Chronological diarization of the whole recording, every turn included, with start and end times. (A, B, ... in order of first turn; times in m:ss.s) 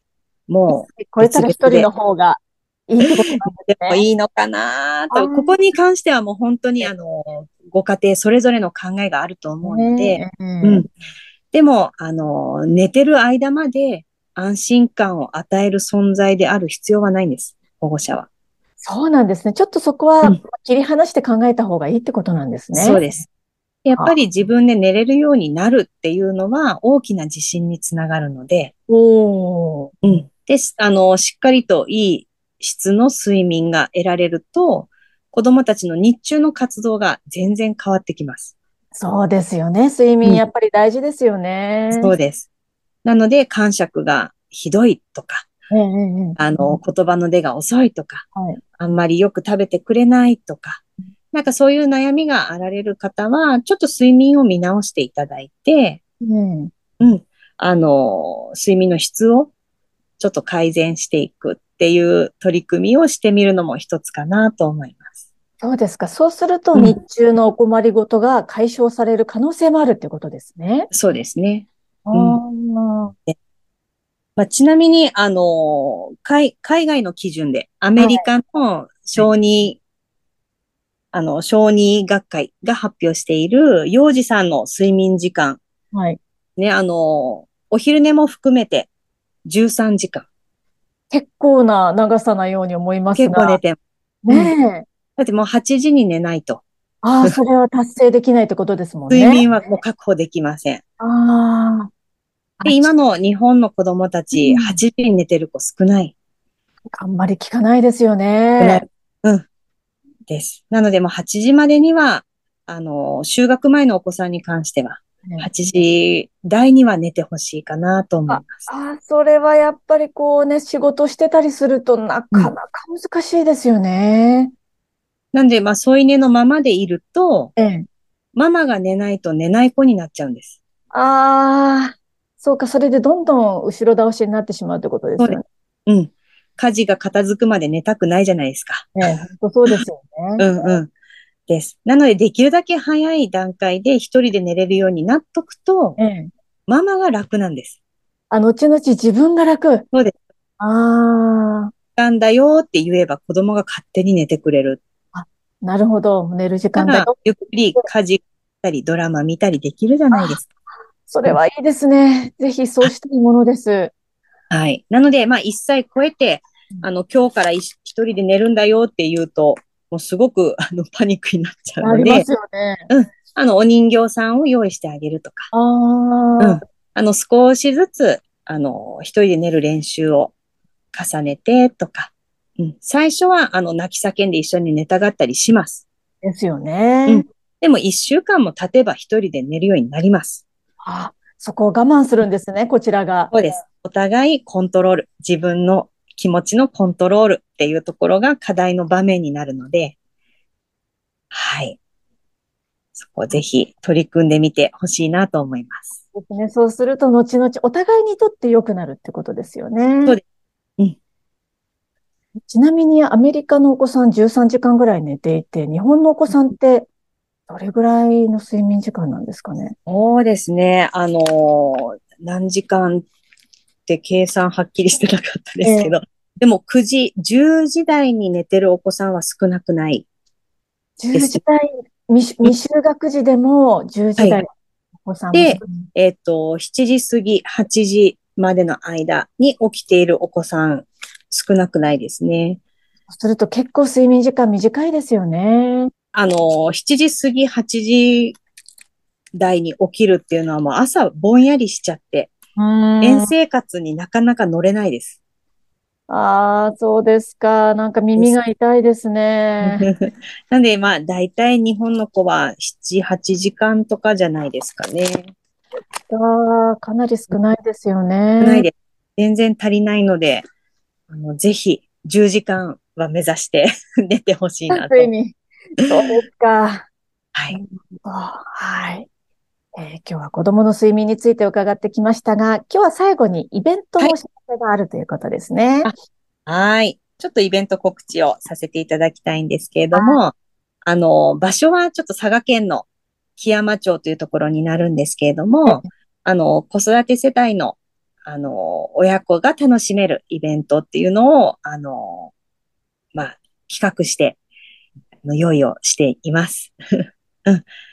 0:00.5-0:01.9 A
0:00.7-0:04.0 B
0:03.0-0:10.9 A
0:05.1-0:05.5 B
0:09.6-0:10.8 B
0:11.5-0:18.3 A
0:18.8-0:23.0 B
0:22.7-0:23.3 A
0:23.8-0:28.7 A
0:28.9-0:29.9 B
0:30.0-0:38.5 A
0:38.9-0:42.1 B
0:41.9-0:42.5 A
0:43.0-0:45.5 A
0:45.7-0:46.8 B
0:46.4-0:48.2 A
0:48.3-0:48.6 B
0:48.8-0:56.0 A
0:56.2-0:56.7 B
0:57.0-0:59.5 A
1:00.2-1:05.1 A
1:05.6-1:10.9 B
1:10.9-1:12.4 A
1:12.1-1:13.1 B
1:14.4-1:19.8 A
1:18.0-1:18.2 B
1:21.1-1:25.6 A
1:25.9-1:26.2 B
1:26.6-1:28.9 A
1:29.4-1:30.3 A
1:31.1-1:33.6 B
1:33.1-1:33.8 A
1:34.2-1:34.9 B
1:35.2-1:36.6 A
1:37.0-1:39.5 B
1:39.1-1:40.8 A
1:41.0-1:41.9 B
1:42.6-1:42.9 B
1:42.6-1:46.1 A
1:44.3-1:44.8 B
1:46.9-1:48.8 B
1:48.6-1:49.4 A
1:50.3-1:58.7 A
1:58.3-2:04.5 B
2:05.3-2:07.5 A
2:07.6-2:07.9 B
2:08.3-2:10.6 A
2:10.9-2:15.4 B
2:15.2-2:19.8 A
2:19.0-2:20.4 B
2:20.4-2:20.9 A
2:21.5-2:26.0 A
2:26.0-2:26.3 B
2:26.7-2:27.8 A
2:28.3-2:29.8 B
2:30.6-2:31.7 B
2:32.0-2:34.8 A
2:35.1-2:37.1 B
2:36.8-2:40.4 A
2:40.1-2:40.4 B
2:41.1-2:43.9 B
2:44.5-2:52.3 A
2:51.8-2:52.9 B
2:52.9-2:55.5 A
2:55.5-2:56.6 B
2:56.4-3:00.3 A
3:00.9-3:05.8 A
3:06.2-3:07.2 B
3:07.1-3:10.4 A
3:10.8-3:13.3 B
3:13.3-3:20.0 A
3:21.3-3:21.8 A
3:22.9-3:25.9 A
3:26.1-3:30.2 B
3:32.4-3:36.9 B
3:37.5-3:39.8 B
3:39.8-3:43.1 A
3:43.9-3:50.1 A
3:45.6-3:46.0 B
3:51.0-3:54.5 B
3:51.1-3:51.4 A
3:55.0-3:55.8 B
3:55.3-4:02.6 A
4:03.1-4:05.9 B
4:06.1-4:08.4 A
4:09.3-4:12.3 A
4:12.6-4:13.3 B
4:13.0-4:15.2 A
4:16.1-4:19.8 B
4:19.6-4:25.3 A
4:26.1-4:28.7 B
4:28.4-4:30.4 A
4:31.1-4:35.1 A
4:34.7-4:36.8 B
4:37.5-4:39.1 B
4:39.8-4:45.9 B
4:46.4-4:50.3 A
4:49.9-4:50.2 B
4:50.8-5:02.3 A
5:03.1-5:04.4 A
5:05.2-5:06.7 A